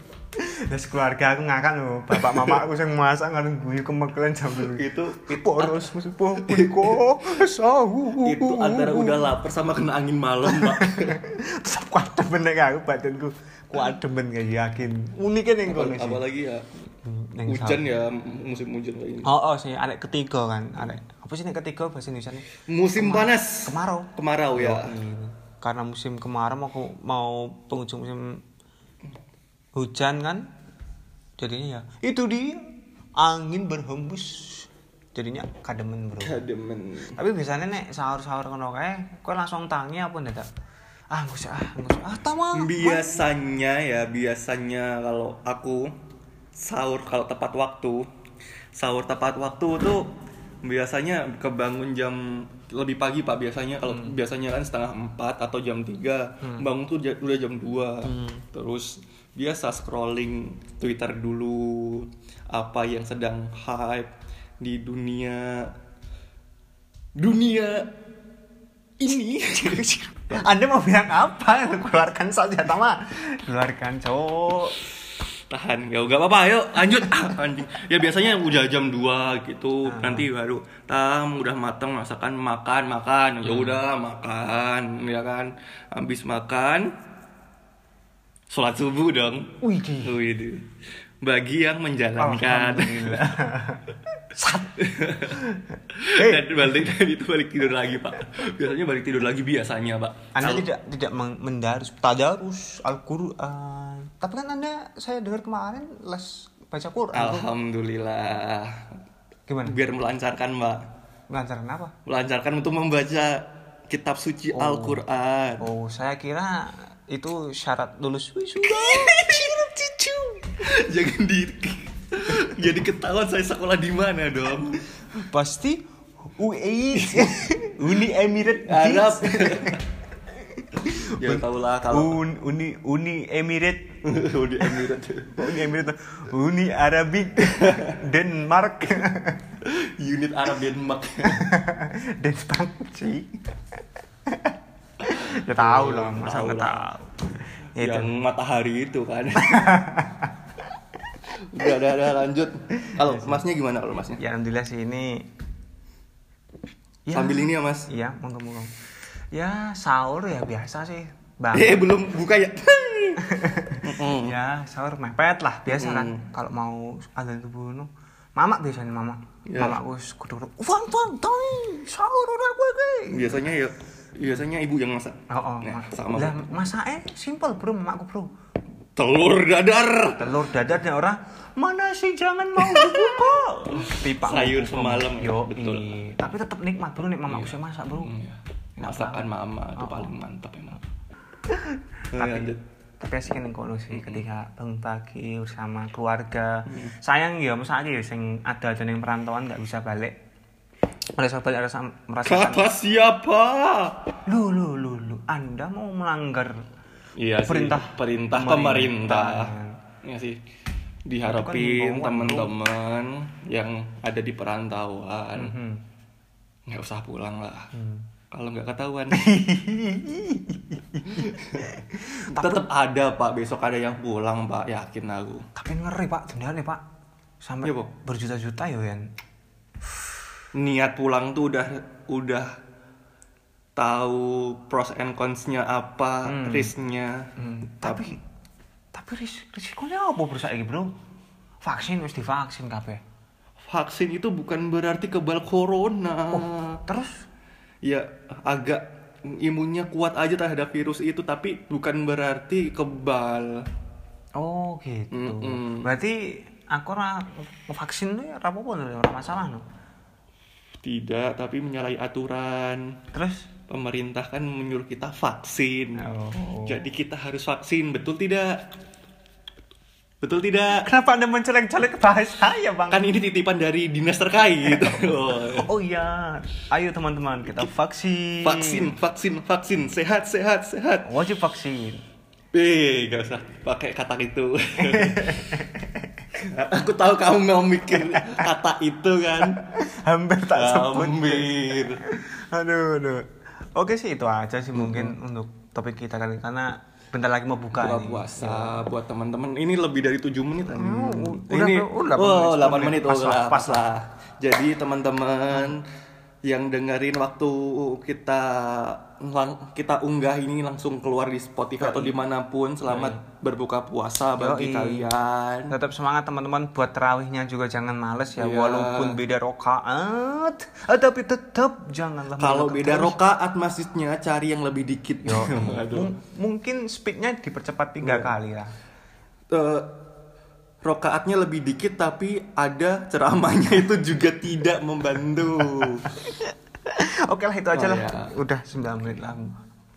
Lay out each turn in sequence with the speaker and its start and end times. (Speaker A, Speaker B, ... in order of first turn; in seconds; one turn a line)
Speaker A: 0.4-9.2
Speaker B: 2.2-2.6
Speaker B: 4.5-7.0
Speaker B: 8.2-11.2
Speaker A: 10.5-16.2
Speaker B: 15.7-16.7
Speaker A: 17.0-17.9
Speaker B: 17.5-19.3
Speaker A: 19.2-28.4
Speaker B: 22.7-24.9
Speaker A: 29.8-30.5
Speaker A: 31.4-32.6
Speaker A: 33.2-36.4
Speaker B: 36.2-37.2
Speaker A: 37.2-40.5
Speaker A: 41.1-43.3
Speaker B: 42.5-45.9
Speaker B: 46.5-48.1
Speaker B: 48.8-50.1
Speaker B: 50.6-65.7
Speaker A: 58.0-58.4
Speaker B: 67.2-68.0
Speaker B: 69.0-69.9
Speaker A: 69.6-74.8
Speaker B: 75.5-86.9
Speaker A: 79.9-80.3
Speaker A: 83.5-83.8
Speaker B: 88.5-90.7
Speaker A: 89.6-90.2
Speaker B: 91.2-93.3
Speaker A: 92.2-96.8
Speaker B: 94.8-100.7
Speaker A: 100.3-107.5
Speaker B: 107.1-108.9
Speaker A: 109.5-109.8
Speaker B: 109.7-110.9
Speaker A: 111.3-112.0
Speaker B: 112.1-115.7
Speaker A: 114.5-115.0
Speaker A: 115.6-120.6
Speaker B: 118.6-119.7
Speaker B: 120.6-124.8
Speaker A: 125.2-129.8
Speaker B: 127.0-127.5
Speaker B: 128.7-129.8
Speaker A: 130.6-133.9
Speaker B: 131.1-132.2
Speaker B: 134.0-135.7
Speaker A: 135.4-139.6
Speaker B: 137.6-137.8
Speaker B: 139.6-141.4
Speaker A: 141.3-143.3
Speaker A: 144.4-148.1
Speaker B: 145.3-146.9
Speaker B: 147.8-149.9
Speaker A: 149.4-150.3
Speaker B: 151.3-154.2
Speaker A: 154.2-155.3
Speaker A: 157.1-158.7
Speaker B: 157.1-157.9
Speaker A: 159.3-161.9
Speaker B: 161.5-164.4
Speaker A: 163.2-173.4
Speaker B: 165.7-166.2
Speaker B: 169.5-169.8
Speaker B: 173.1-176.5
Speaker A: 175.3-178.3
Speaker B: 179.0-180.5
Speaker A: 180.2-188.2
Speaker B: 182.6-186.0
Speaker B: 187.3-190.8
Speaker A: 188.8-190.1
Speaker A: 191.5-200.2
Speaker B: 192.1-192.6
Speaker B: 193.9-194.2
Speaker B: 196.7-196.9
Speaker A: 201.2-202.7
Speaker B: 202.2-204.0
Speaker A: 204.3-206.6
Speaker B: 207.2-209.5
Speaker A: 207.5-209.8
Speaker B: 210.0-210.4
Speaker B: 211.1-215.6
Speaker A: 211.3-212.5
Speaker A: 215.4-215.8
Speaker B: 216.7-217.7
Speaker A: 217.7-218.1
Speaker B: 218.3-219.3
Speaker A: 219.1-222.6
Speaker B: 221.2-221.7
Speaker B: 222.3-225.5
Speaker A: 225.6-226.8
Speaker A: 227.4-229.1
Speaker B: 227.6-227.9
Speaker B: 230.6-232.5
Speaker B: 233.8-237.3
Speaker A: 236.3-236.7
Speaker A: 237.4-238.2
Speaker B: 237.8-238.2
Speaker A: 238.9-240.9
Speaker A: 241.6-243.0
Speaker B: 243.7-246.8
Speaker A: 246.3-247.2
Speaker B: 247.8-253.6
Speaker A: 254.4-259.6
Speaker B: 255.1-255.9
Speaker B: 260.8-262.9
Speaker A: 263.1-263.5
Speaker B: 263.7-266.1
Speaker A: 266.0-266.8
Speaker B: 266.7-268.7
Speaker B: 270.2-270.9
Speaker A: 270.8-273.1
Speaker B: 272.9-275.7
Speaker A: 274.8-278.9
Speaker B: 278.4-281.1
Speaker A: 281.0-282.0
Speaker B: 282.5-285.6
Speaker A: 284.8-286.1
Speaker B: 286.4-289.6
Speaker A: 288.0-288.4
Speaker A: 289.4-298.9
Speaker B: 290.5-292.0
Speaker B: 294.7-295.1
Speaker B: 297.7-305.9
Speaker A: 300.7-303.9
Speaker B: 306.4-315.7
Speaker A: 311.8-312.1
Speaker A: 312.9-313.2
Speaker A: 314.4-315.1
Speaker A: 315.7-323.2
Speaker B: 318.4-319.2
Speaker B: 322.4-326.1
Speaker A: 325.2-328.7
Speaker B: 328.0-328.3
Speaker B: 329.5-330.0
Speaker B: 330.8-336.1
Speaker A: 336.3-339.6
Speaker B: 337.7-338.3